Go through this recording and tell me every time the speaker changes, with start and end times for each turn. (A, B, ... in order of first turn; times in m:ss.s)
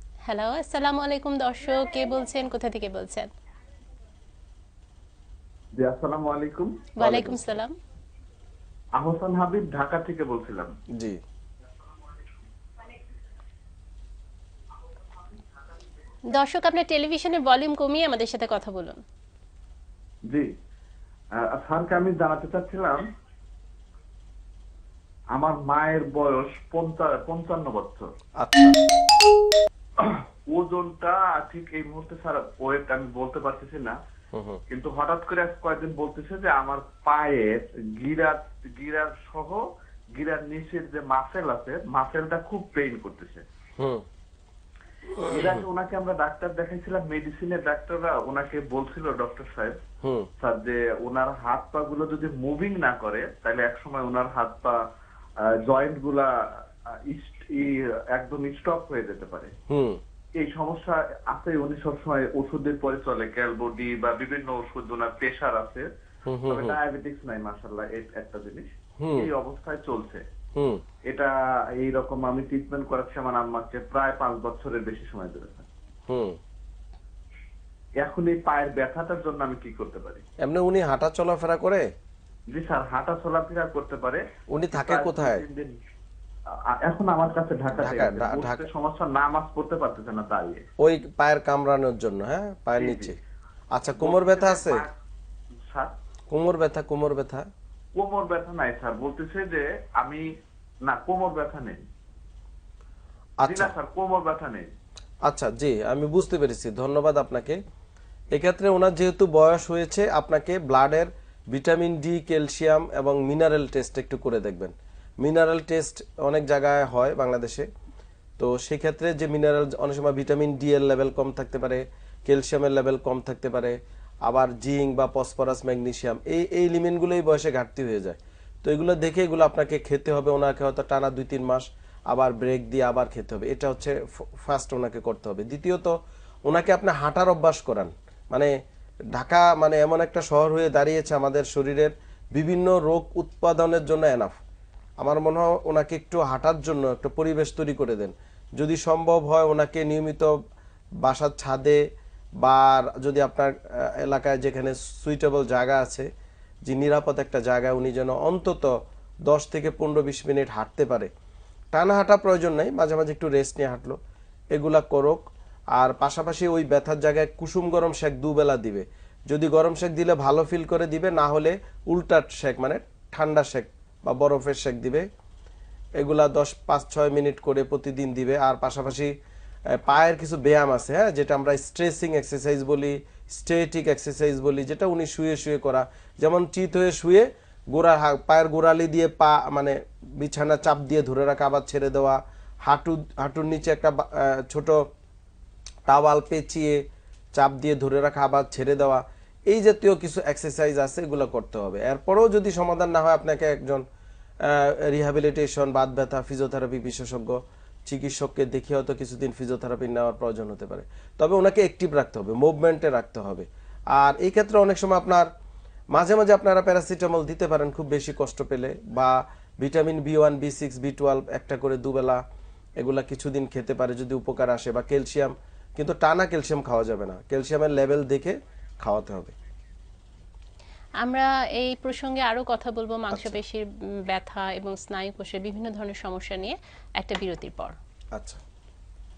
0:00.3-0:03.3 A
0:05.8-0:06.9 B
0:07.0-0:07.8 A
0:07.0-0:07.6 C
0:09.0-0:10.7 B
0:16.3-0:19.0 A
0:21.4-0:23.0 B
0:25.3-0:28.1 B
0:28.4-0:28.8 C
0:30.0-0:34.0 B
0:34.3-0:34.6 C
0:34.7-0:39.6 B
0:40.2-0:43.4 B
0:43.8-0:44.0 C
0:45.3-0:49.8 B
0:50.0-0:50.3 C
0:50.4-0:54.8 B
0:55.7-0:56.3 B
0:57.1-0:59.5 B
0:59.7-1:00.0 C
1:00.4-1:05.9 B
1:06.3-1:06.8 C
1:06.5-1:10.2 B
1:09.0-1:09.3 C
1:10.6-1:10.8 C
1:11.1-1:15.7 B
1:16.1-1:16.4 C
1:18.0-1:20.2 B
1:20.4-1:21.8 C
1:22.5-1:24.2 B
1:24.5-1:25.4 C
1:24.7-1:25.7 B
1:26.7-1:30.6 B
1:27.7-1:28.7 C
1:30.8-1:33.2 C
1:32.8-1:33.1 B
1:33.7-1:34.8 C
1:34.0-1:34.9 B
1:36.3-1:37.5 C
1:38.0-1:40.2 B
1:40.8-1:41.8 B
1:43.4-1:43.7 C
1:43.4-1:44.6 B
1:45.3-1:47.6 C
1:48.3-1:57.7 C
1:58.4-2:15.9 C
2:16.5-2:18.5 C
2:19.2-2:24.4 C
2:25.0-2:30.3 C
2:31.0-2:31.8 C
2:32.4-2:36.1 C
2:36.7-2:38.7 C
2:39.3-2:41.1 C
2:41.7-2:44.0 C
2:44.5-2:45.2 C
2:45.8-2:55.0 C
2:56.0-2:59.1 C
2:59.7-3:14.8 C
3:15.9-3:16.8 C
3:17.4-3:23.8 C
3:24.4-3:35.3 C
3:35.9-3:42.2 C
3:42.8-3:49.3 C
3:51.0-3:57.8 A
3:53.1-3:53.4 C
3:58.2-3:58.4 C